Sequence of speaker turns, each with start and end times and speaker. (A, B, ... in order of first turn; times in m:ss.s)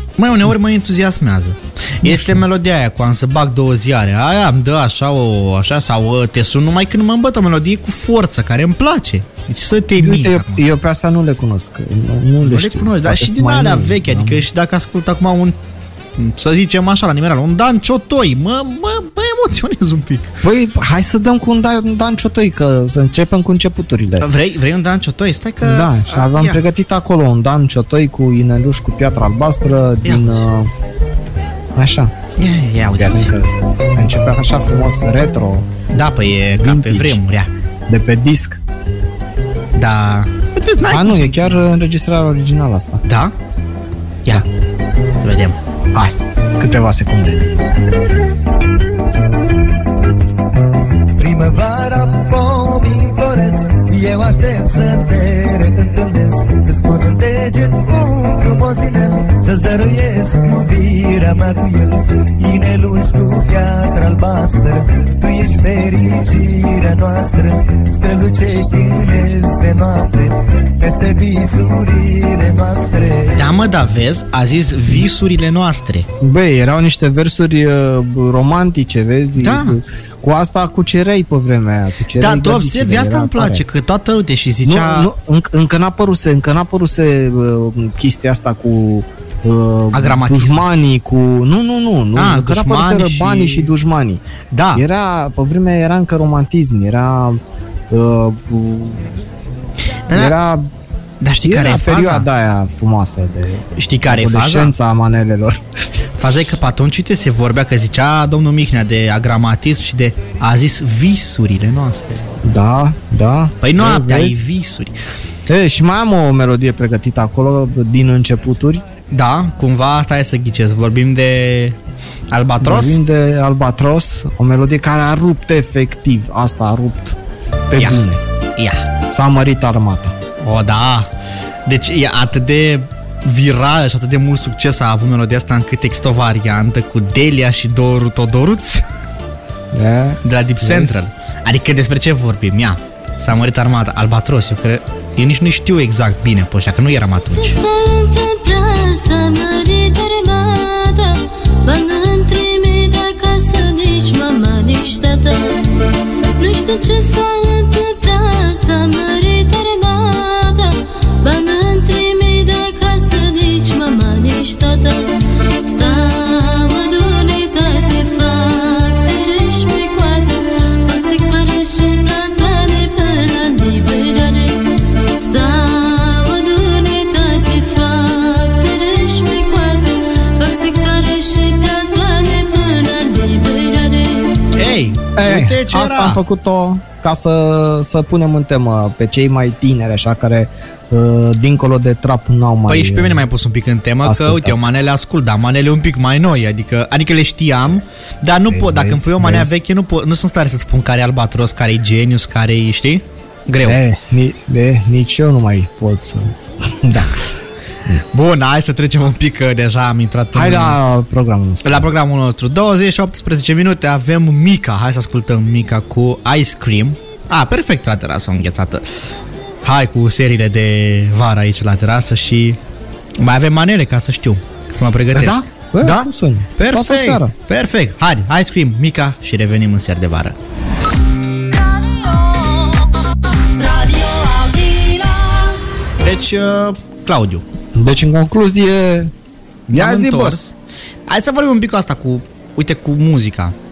0:00.2-0:10.7 A
0:02.0-0:02.4 B
0:10.0-0:14.5 B
0:12.4-0:15.6 A
0:16.2-0:20.4 A
0:20.4-0:24.3 B
0:24.2-0:26.6 A
0:25.6-0:30.7 B
0:30.0-0:30.4 A
0:31.8-0:32.1 B
0:32.4-0:33.4 A
0:33.0-0:35.7 B
0:35.9-0:37.5 A
0:36.6-0:37.2 B
0:37.9-0:38.6 B
0:39.8-0:41.6 A
0:40.9-0:43.0 B
0:43.0-0:43.3 A
0:45.2-0:45.6 A
0:45.9-0:47.7 B
0:51.2-1:13.5 C
1:13.4-1:16.1 A
1:16.2-1:23.6 B
1:19.4-1:19.8 A
1:22.2-1:25.1 A
1:24.6-1:34.2 B
1:29.9-1:30.6 A
1:32.2-1:33.7 A
1:34.5-1:34.8 A
1:34.7-1:39.1 B
1:40.1-1:40.4 A
1:40.1-1:40.7 B
1:41.2-1:42.3 A
1:41.4-1:45.6 B
1:43.8-1:44.7 A
1:46.2-1:52.2 A
1:52.4-1:54.4 B
1:53.6-1:55.0 A
1:55.5-1:58.8 B
1:59.1-2:01.8 A
2:02.3-2:03.0 A
2:02.6-2:07.2 B
2:07.7-2:08.2 B
2:07.8-2:08.0 A
2:08.6-2:08.9 A
2:09.1-2:10.1 B
2:10.4-2:11.1 A
2:11.7-2:18.8 A
2:19.7-2:21.0 B
2:20.2-2:27.6 A
2:27.3-2:35.6 D
2:36.4-2:54.6 D
2:55.2-3:04.3 D
3:04.5-3:06.2 A
3:05.2-3:13.3 B
3:12.7-3:23.8 A
3:14.0-3:14.6 B
3:18.5-3:19.5 B
3:23.6-3:27.2 B
3:28.1-3:30.8 A
3:30.3-3:31.9 B
3:31.6-3:38.8 A
3:39.6-3:42.6 A
3:43.2-3:50.4 A
3:45.1-3:47.3 B
3:51.8-3:52.6 E
3:53.6-3:55.6 E
3:56.0-3:57.4 A
3:57.8-3:59.1 B
3:59.7-4:00.5 A
3:59.7-4:00.4 B
4:01.1-4:03.6 A